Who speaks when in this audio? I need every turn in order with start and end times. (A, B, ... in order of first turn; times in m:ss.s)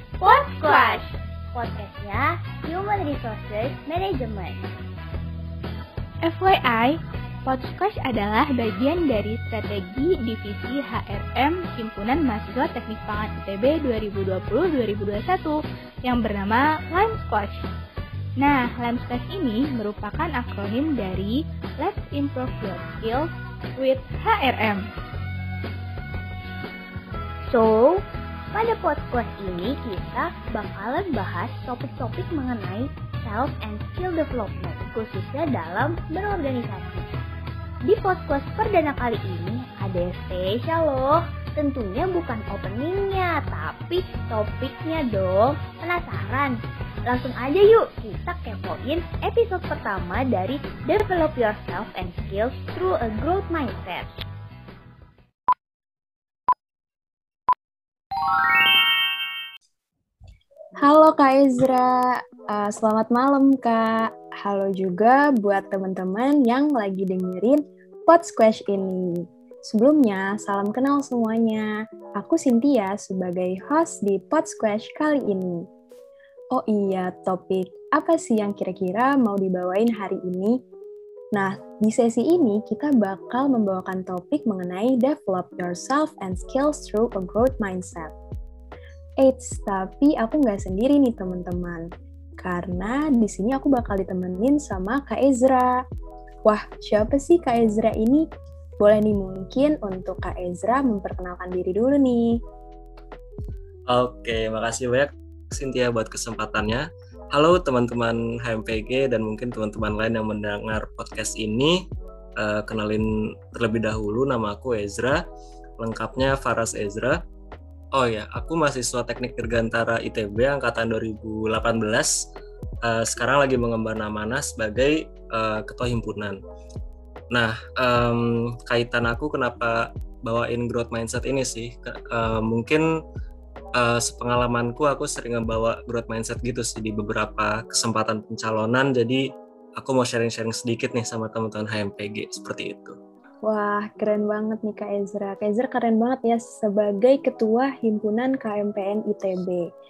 0:00.2-0:04.8 A
0:00.3-0:01.1 B
0:06.2-0:17.7 B
0:18.4-0:24.9 B
0:27.5-0:37.1 A
0:37.8-0:54.1 A
1:00.8-1:15.6 C
1:16.5-1:20.6 C
1:21.3-1:28.1 C
1:29.2-1:31.9 C
1:32.4-1:35.8 C
1:36.4-1:38.2 C
1:38.8-1:42.4 C
1:43.9-1:51.8 D
1:52.4-1:55.2 D
1:55.8-1:57.2 D
1:57.9-2:02.3 D
2:02.8-2:06.4 D
2:07.3-2:12.8 D
2:13.8-2:23.0 D
2:23.4-2:29.6 C